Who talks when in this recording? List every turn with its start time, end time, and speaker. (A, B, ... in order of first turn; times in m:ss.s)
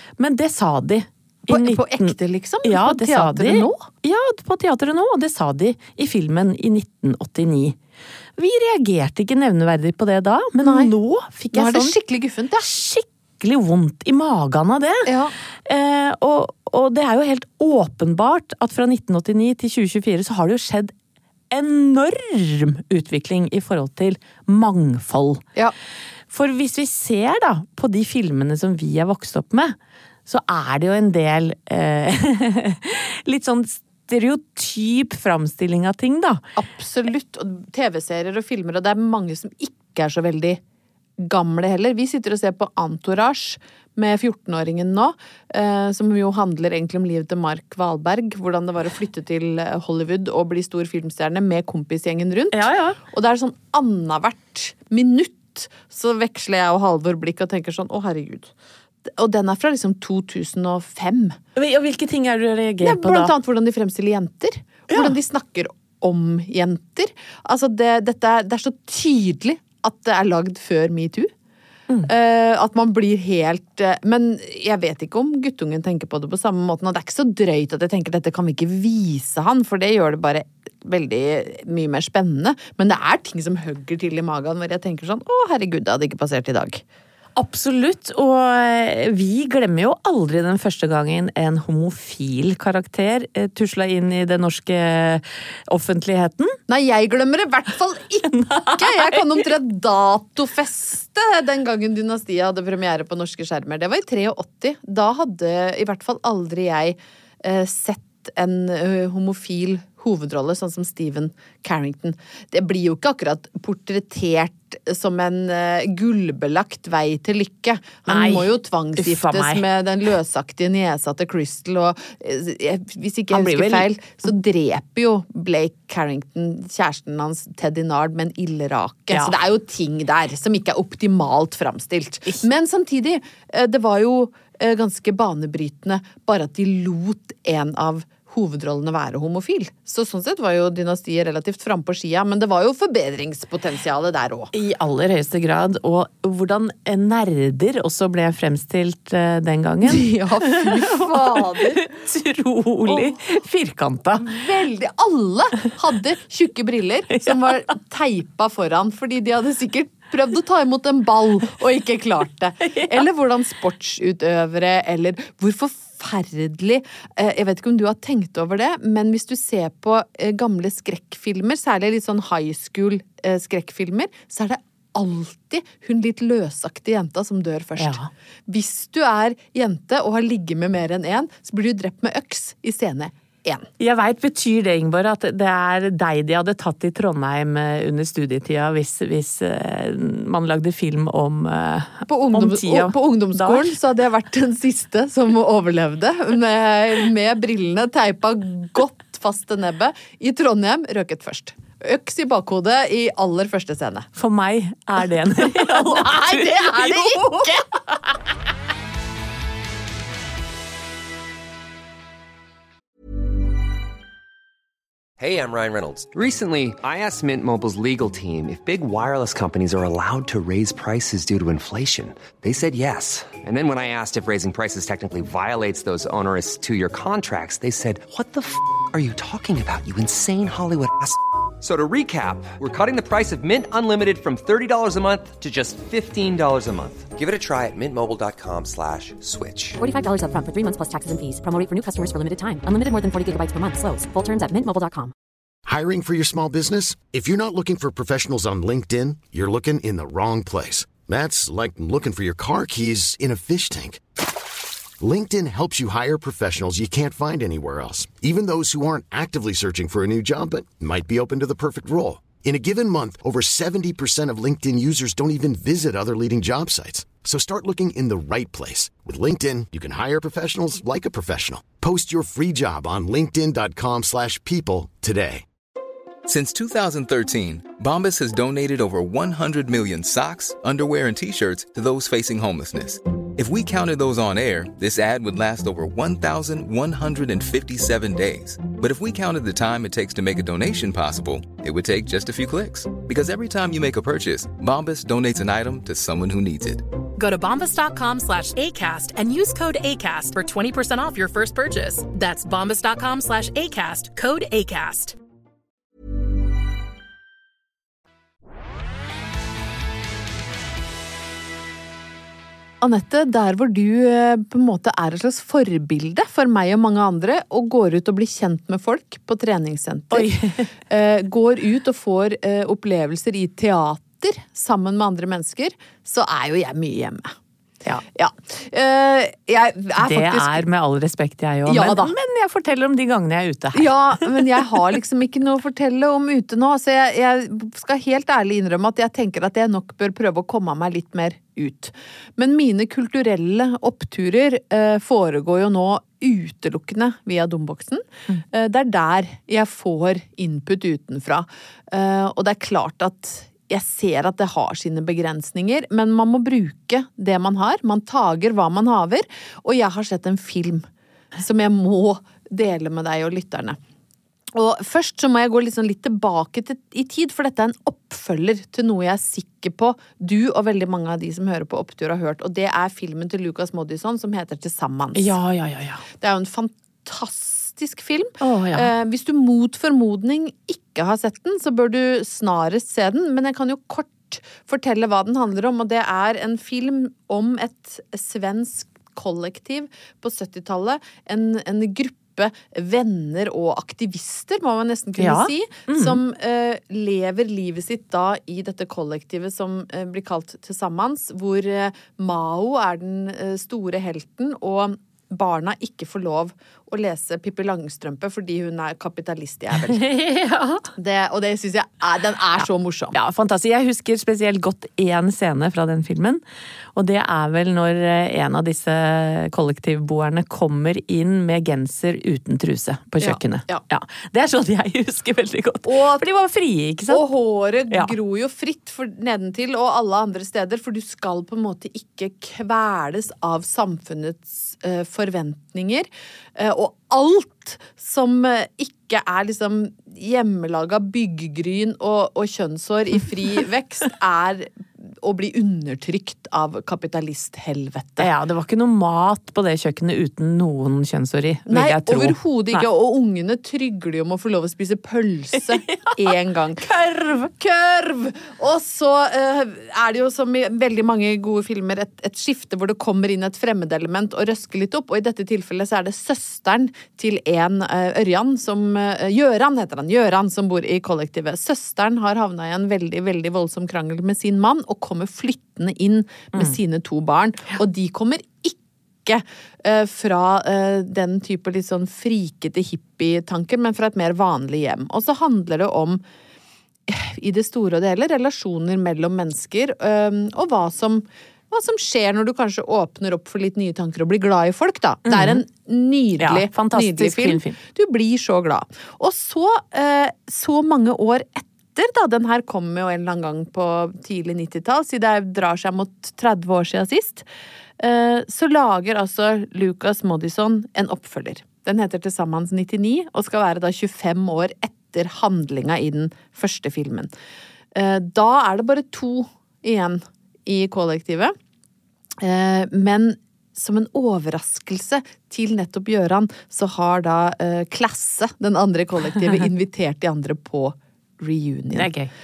0:00.2-0:07.8 A
0:01.5-0:03.8 B
0:08.4-0:11.9 A
0:10.6-0:10.9 B
0:11.5-0:12.7 B
0:12.6-0:15.1 A
0:15.0-0:15.3 B
0:15.6-0:20.9 A
0:21.5-0:25.4 A
0:26.3-0:36.4 A
0:36.6-0:40.6 B
0:41.2-0:58.5 B
0:52.5-0:53.0 A
0:59.0-1:01.4 B
1:01.6-1:03.3 A
1:02.8-1:11.3 B
1:04.9-1:05.2 A
1:12.0-1:26.8 B
1:27.4-1:36.6 A
1:36.7-2:24.5 B
1:38.3-1:39.4 A
1:58.1-1:59.6 A
2:03.3-2:03.9 A
2:09.1-2:09.4 A
2:24.5-2:34.4 A
2:29.8-2:31.9 B
2:32.8-2:33.2 B
2:34.2-3:03.7 B
2:37.1-2:37.6 A
2:42.6-2:43.0 A
2:57.8-2:58.1 A
3:03.8-3:13.7 A
3:12.1-3:24.1 B
3:24.2-3:27.5 A
3:25.5-3:27.8 B
3:35.2-3:59.8 C
3:59.8-4:05.1 D
4:05.6-4:14.0 E
4:15.0-4:35.4 E
4:36.2-4:56.8 F
4:57.2-5:05.2 G
5:12.8-5:20.3 B
5:20.1-5:20.7 A
5:20.9-5:27.3 B
5:28.1-5:30.6 B
5:30.0-5:34.4 A
5:31.6-5:32.1 B
5:33.7-6:03.8 B
6:04.5-6:15.3 B
6:15.1-6:16.0 A
6:16.2-6:50.0 B
6:18.4-6:18.9 A
6:35.2-6:36.2 A
6:49.9-6:50.9 A
6:51.0-6:53.2 B
6:52.6-6:56.4 A
6:56.9-7:07.3 A
7:03.2-7:03.8 B
7:05.8-7:06.2 B
7:07.1-7:28.3 B
7:28.2-7:32.8 A
7:31.7-8:06.2 B
7:35.7-7:36.1 A
7:36.8-7:37.5 A
8:07.1-8:27.4 B
8:15.2-8:15.6 A
8:16.4-8:17.8 A
8:28.0-8:37.3 B
8:37.9-8:41.5 B
8:42.4-8:52.1 B
8:51.9-8:52.3 A